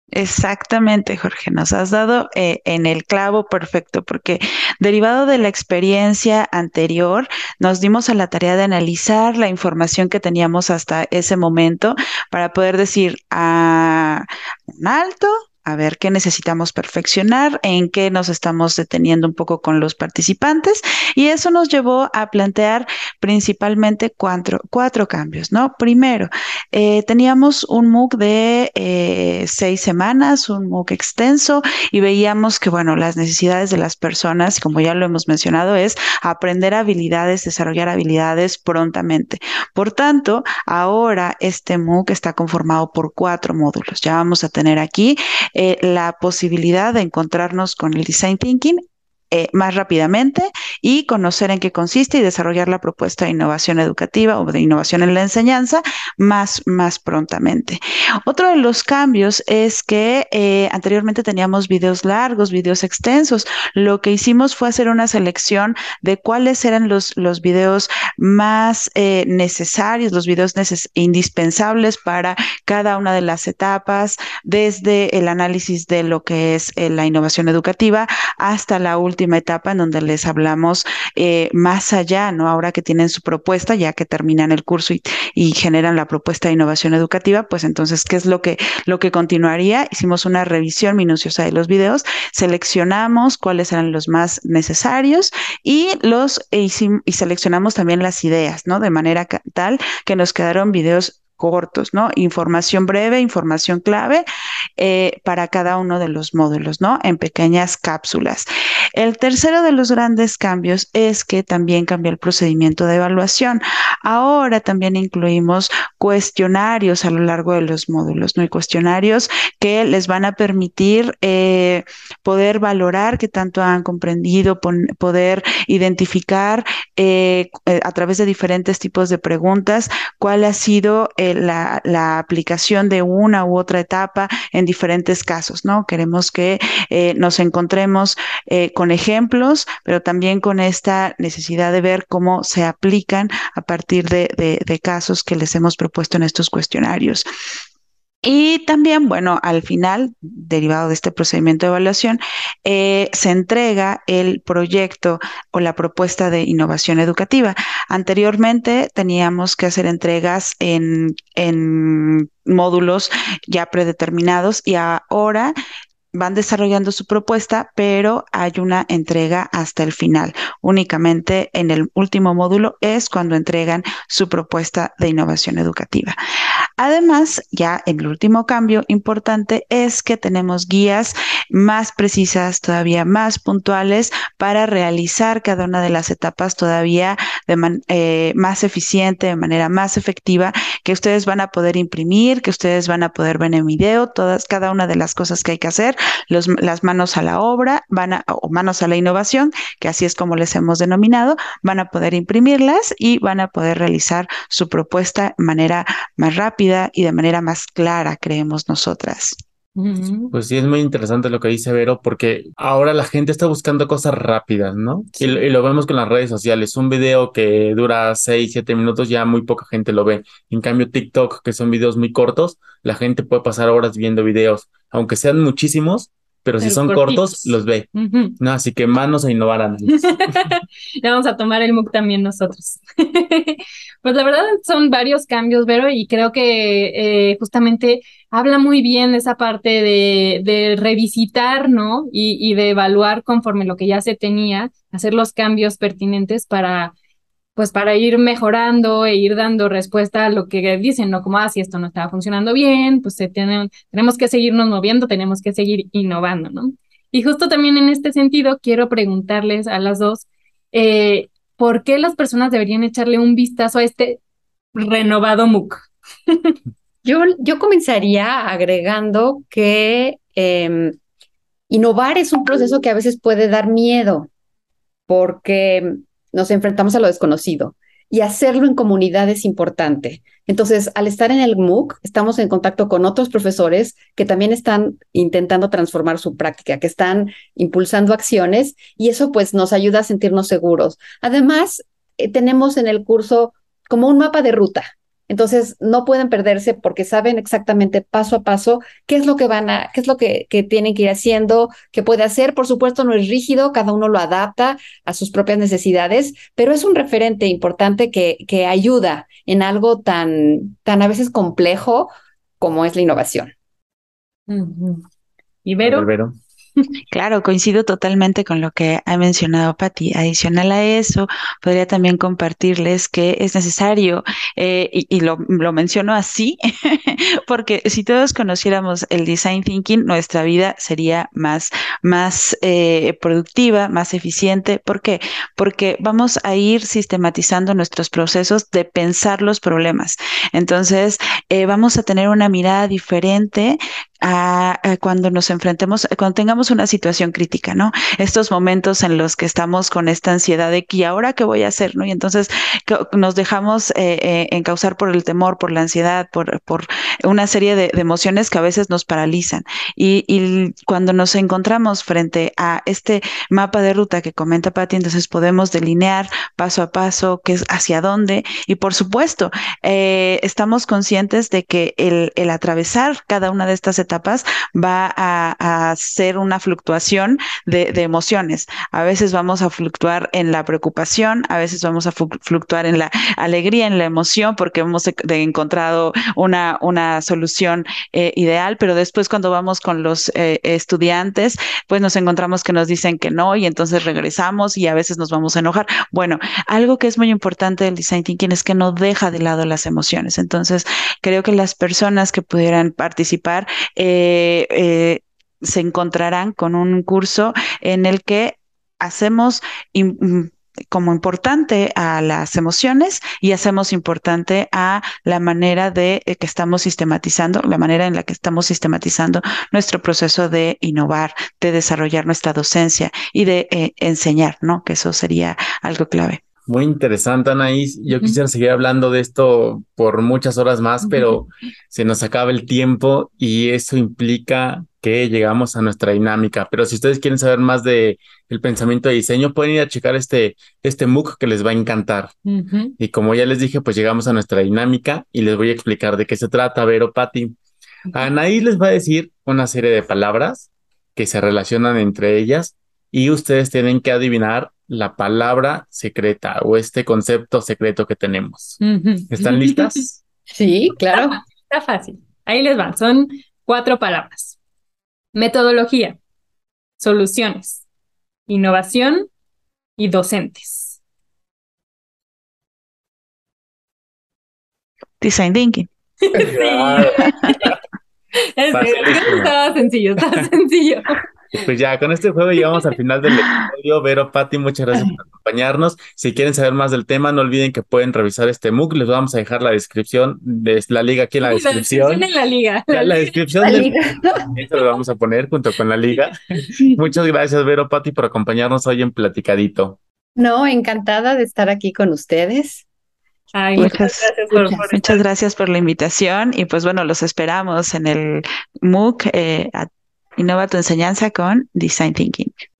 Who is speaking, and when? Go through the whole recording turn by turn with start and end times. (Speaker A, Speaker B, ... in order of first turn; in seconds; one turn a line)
Speaker A: 0.1-104.3
Speaker A: 104.8-147.2
Speaker A: 148.2-165.5
Speaker A: 166.1-176.2
Speaker A: 176.8-209.4
Speaker B: 209.8-210.3
Speaker C: 210.3-227.9
Speaker B: 226.6-228.4
Speaker C: 228.4-230.5
Speaker B: 229.9-246.9
Speaker B: 247.6-264.2
Speaker B: 264.7-266.6
Speaker D: 267.0-271.0
Speaker D: 271.7-274.3
Speaker D: 275.1-313.5
Speaker B: 314.5-315.1
Speaker B: 315.6-316.1
Speaker C: 315.8-316.4
Speaker A: 317.1-426.4
Speaker C: 426.7-442.3
Speaker B: 431.0-431.5
Speaker B: 442.5-442.9
Speaker C: 443.0-447.6
Speaker C: 448.1-458.8
Speaker B: 458.8-460.1
Speaker C: 459.3-460.2
Speaker D: 460.5-461.4
Speaker B: 461.1-464.6
Speaker B: 465.3-466.2
Speaker B: 467.0-467.9
Speaker B: 468.5-469.3
Speaker B: 470.0-471.0
Speaker A: 475.2-475.9
Speaker B: 476.2-477.8
Speaker C: 476.4-477.8
Speaker B: 478.6-481.2
Speaker C: 478.7-479.6
Speaker C: 481.5-492.3
Speaker B: 491.4-493.8
Speaker C: 492.9-493.9
Speaker D: 493.6-494.5
Speaker C: 494.6-500.0
Speaker D: 500.4-502.9
Speaker B: 503.5-505.2
Speaker A: 503.8-512.5